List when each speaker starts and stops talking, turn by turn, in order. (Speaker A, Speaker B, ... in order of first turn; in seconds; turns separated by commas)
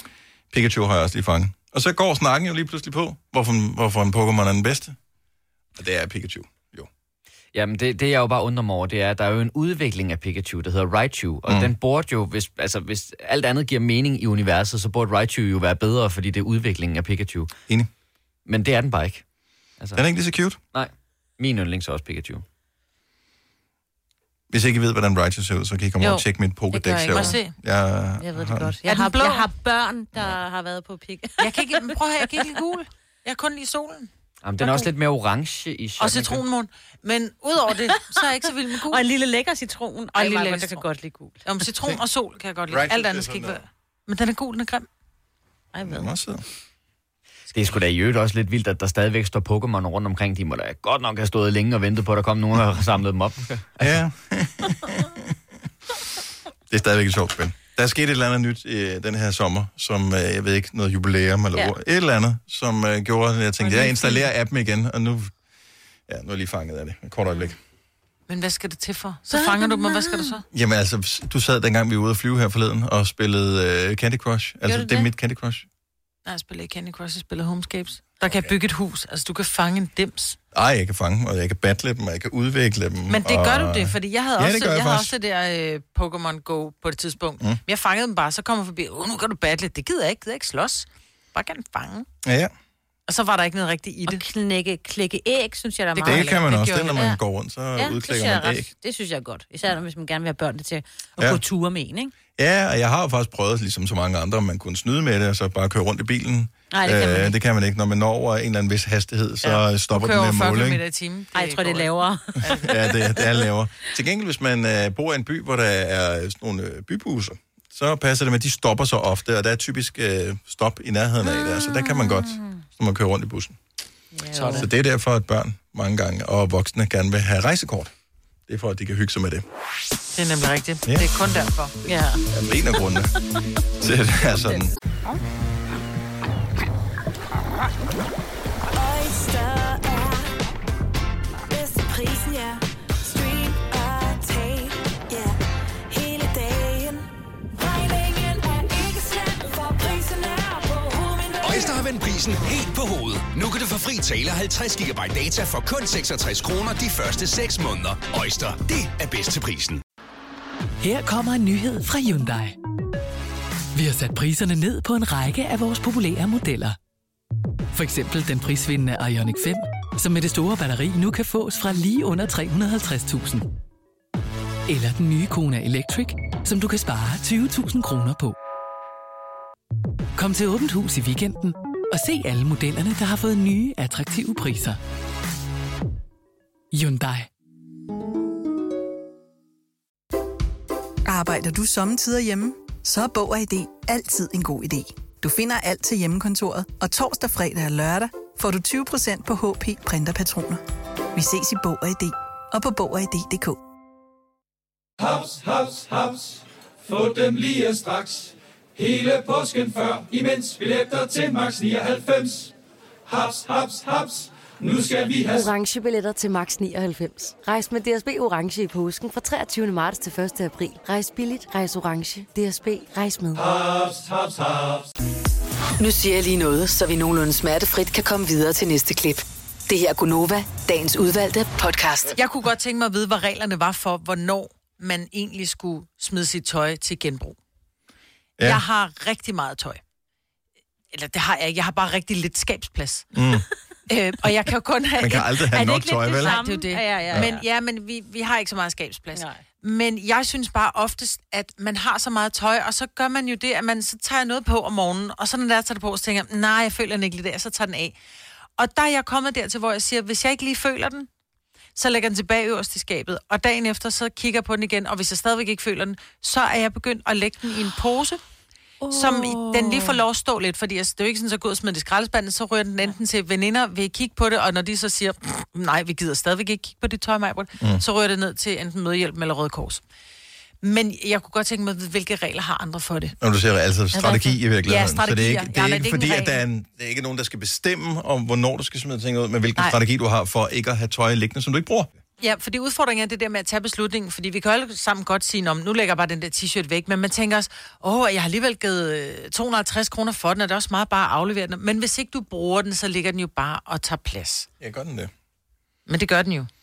Speaker A: 0.5-5.0, Speaker A: 5.8-6.9, Speaker B: 7.5-17.5, Speaker B: 18.4-19.2, Speaker A: 19.9-20.6, Speaker B: 20.7-22.4, Speaker A: 24.5-28.7, Speaker C: 26.0-27.4, Speaker D: 27.1-27.5, Speaker C: 28.2-32.4, Speaker D: 28.8-29.5, Speaker D: 31.4-34.1, Speaker B: 34.4-36.4, Speaker D: 36.0-39.0, Speaker C: 38.9-41.5, Speaker D: 40.1-40.8, Speaker D: 41.4-44.9, Speaker A: 42.7-43.6, Speaker C: 45.7-46.1, Speaker A: 45.8-46.4, Speaker B: 47.5-53.8, Speaker A: 53.8-55.3, Speaker A: 56.7-65.3, Speaker C: 63.6-64.3, Speaker A: 66.1-67.6, Speaker D: 68.3-70.4, Speaker C: 69.3-70.3, Speaker A: 70.5-75.7, Speaker C: 74.7-75.1, Speaker D: 76.2-80.4, Speaker A: 78.3-78.5, Speaker A: 80.5-85.1, Speaker D: 83.1-92.1, Speaker A: 92.2-92.5, Speaker D: 93.1-94.2, Speaker C: 94.1-97.2, Speaker D: 95.9-97.0, Speaker A: 96.0-98.7, Speaker C: 97.8-102.1, Speaker A: 102.3-110.8, Speaker C: 106.7-107.3, Speaker D: 109.4-112.8, Speaker C: 111.3-112.9, Speaker A: 112.6-123.6, Speaker C: 121.3-122.6, Speaker C: 124.1-124.7, Speaker D: 124.3-124.7, Speaker A: 124.5-127.9, Speaker A: 128.5-129.4, Speaker D: 130.1-131.7, Speaker C: 131.8-132.2, Speaker A: 132.3-133.1, Speaker A: 133.8-134.7, Speaker E: 138.7-140.4, Speaker E: 141.5-145.4, Speaker E: 145.9-151.8, Speaker F: 151.4-159.8, Speaker G: 160.8-162.6, Speaker G: 163.7-166.8, Speaker G: 167.7-173.4, Speaker G: 174.7-178.3, Speaker G: 180.2-184.8, Speaker G: 186.7-187.3, Speaker H: 191.1-200.6, Speaker H: 201.1-203.6, Speaker I: 205.0-212.5, Speaker I: 213.1-215.5, Speaker J: 215.2-223.4, Speaker I: 223.3-224.8, Speaker K: 225.8-232.2, Speaker D: 232.2-237.4, Speaker D: 238.4-239.8, Speaker D: 240.9-243.1, Speaker A: 243.1-243.4, Speaker D: 243.9-245.3, Speaker A: 245.0-246.4, Speaker C: 245.5-247.4, Speaker D: 246.1-257.9, Speaker C: 249.1-249.4, Speaker D: 258.6-261.1, Speaker D: 261.8-268.2, Speaker C: 268.8-270.0, Speaker D: 268.9-279.8, Speaker D: 280.6-283.1, Speaker A: 283.2-291.9, Speaker C: 283.9-284.4, Speaker D: 284.7-286.4, Speaker D: 292.2-304.5, Speaker A: 304.6-305.1, Speaker D: 305.9-306.5